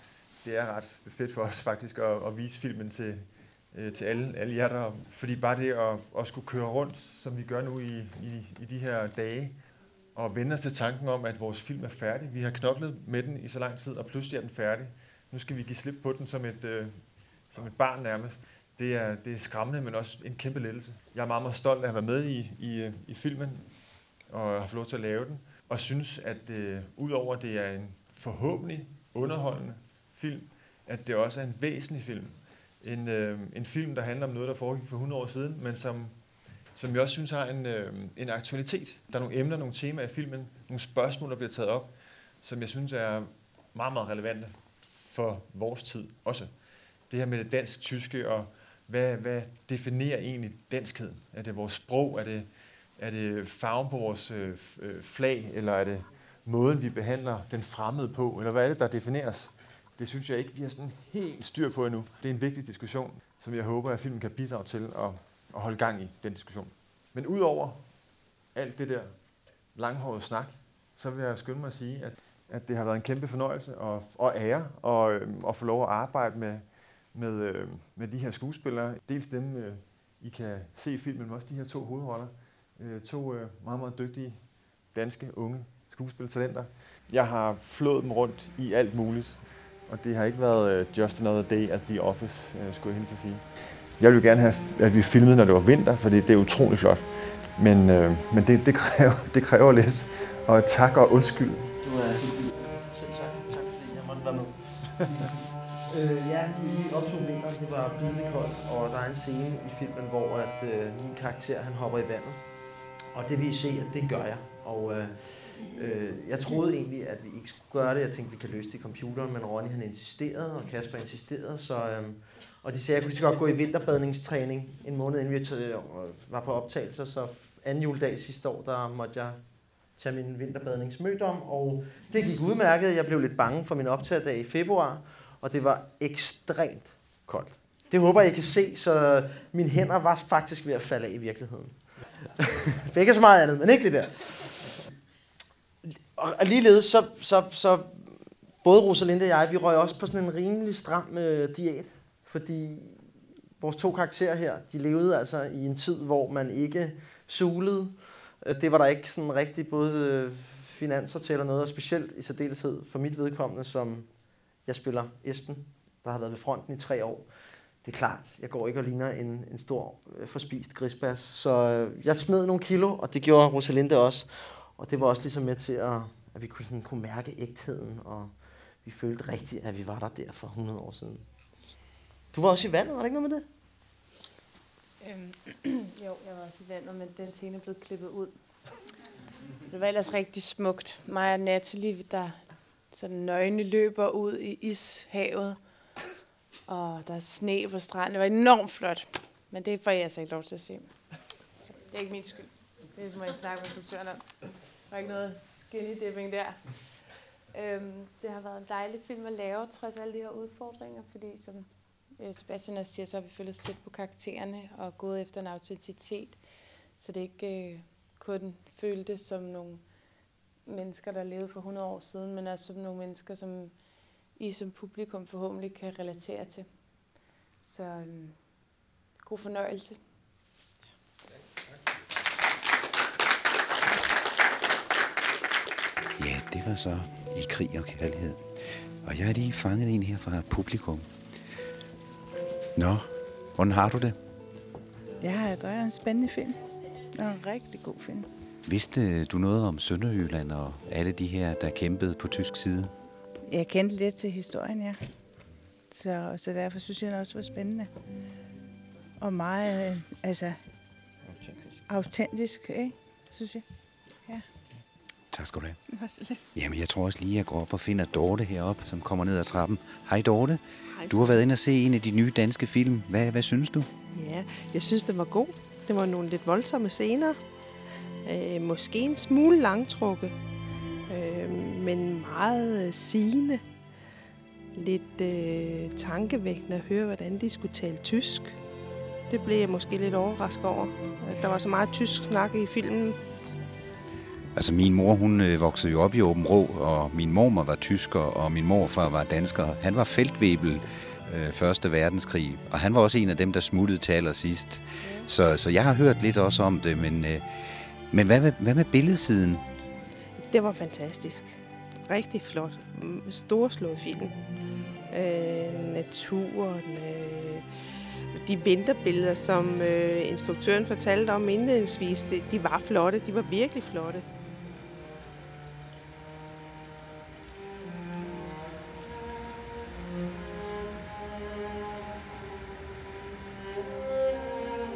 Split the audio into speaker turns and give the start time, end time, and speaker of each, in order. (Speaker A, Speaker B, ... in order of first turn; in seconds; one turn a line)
Speaker A: 0.4-9.6
Speaker A: 10.1-46.5
Speaker A: 47.1-67.9
Speaker A: 68.5-69.1
Speaker A: 69.7-93.4
Speaker A: 94.0-101.7
Speaker B: 101.8-104.5
Speaker B: 105.9-112.4
Speaker B: 113.1-144.8
Speaker B: 145.8-167.3
Speaker B: 167.8-181.2
Speaker B: 182.3-183.4
Speaker C: 185.0-188.3
Speaker C: 189.7-195.6
Speaker C: 196.7-230.0
Speaker D: 236.2-241.1
Speaker D: 242.8-244.2
Speaker E: 245.2-246.6
Speaker E: 247.1-248.3
Speaker D: 248.7-252.9
Speaker E: 253.5-255.0
Speaker E: 255.9-257.9
Speaker E: 259.2-260.6
Speaker E: 261.8-264.4
Speaker D: 265.3-265.8
Speaker E: 265.9-266.4
Speaker D: 266.5-273.9
Speaker F: 270.9-271.4
Speaker F: 274.1-277.4
Speaker F: 278.2-280.3
Speaker F: 281.1-283.6
Speaker F: 284.7-288.6
Speaker F: 289.3-293.2
Speaker D: 294.5-307.4
Speaker D: 308.1-309.6
Speaker F: 310.4-314.4
Speaker F: 315.1-317.7
Speaker F: 318.3-324.2